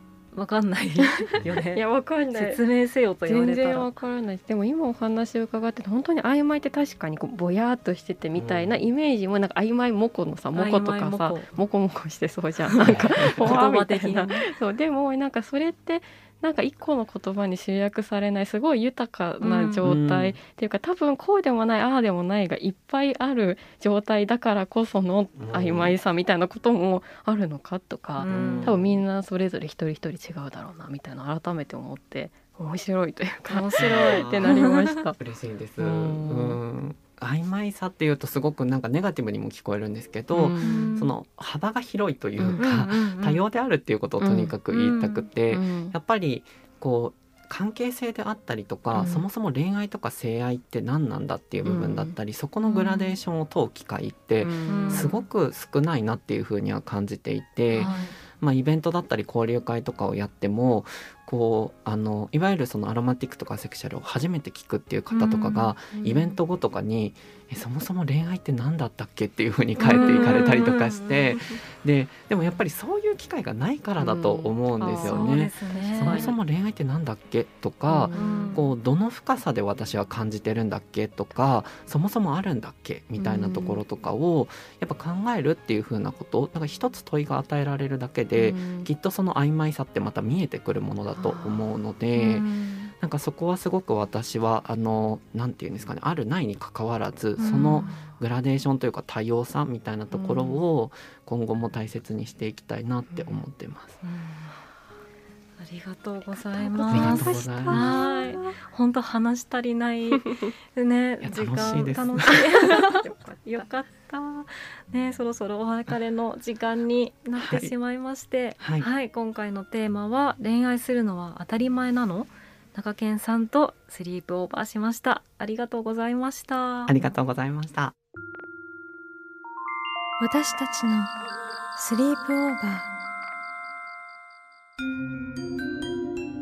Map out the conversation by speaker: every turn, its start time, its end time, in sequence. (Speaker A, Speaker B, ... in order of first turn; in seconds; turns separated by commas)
Speaker A: 0.3-3.9, Speaker B: 1.0-2.6, Speaker B: 3.2-35.2, Speaker C: 8.3-8.8, Speaker A: 10.5-11.5, Speaker A: 12.7-14.5, Speaker C: 12.8-13.5, Speaker A: 19.4-19.9, Speaker C: 19.8-20.4, Speaker C: 25.3-25.9, Speaker A: 28.2-28.8, Speaker C: 28.2-29.0, Speaker A: 33.5-34.8, Speaker C: 33.8-92.5, Speaker B: 35.8-36.6, Speaker B: 40.3-41.0, Speaker A: 40.6-41.1, Speaker A: 42.5-43.4, Speaker B: 44.2-44.5, Speaker A: 44.7-45.3, Speaker B: 45.5-45.9, Speaker B: 48.9-49.2, Speaker B: 51.6-52.1, Speaker A: 52.6-53.2, Speaker B: 54.4-55.1, Speaker A: 54.7-55.2, Speaker A: 57.7-58.1, Speaker A: 65.1-65.7, Speaker B: 65.9-66.3, Speaker B: 69.8-70.5, Speaker A: 69.8-71.5, Speaker B: 74.0-76.3, Speaker A: 74.9-76.3, Speaker B: 77.9-78.6, Speaker A: 78.1-78.6, Speaker B: 83.2-83.8, Speaker B: 88.3-88.9, Speaker B: 91.1-91.7, Speaker A: 92.2-92.5, Speaker C: 93.0-104.0, Speaker A: 97.4-98.1, Speaker B: 100.2-100.5, Speaker B: 103.1-103.4, Speaker A: 104.0-104.7, Speaker A: 105.6-126.9, Speaker B: 106.3-108.6, Speaker C: 106.9-107.9, Speaker C: 111.2-112.4, Speaker B: 112.3-113.7, Speaker C: 117.4-117.7, Speaker C: 118.6-118.9, Speaker C: 126.9-127.9, Speaker D: 130.2-131.1, Speaker D: 131.8-132.9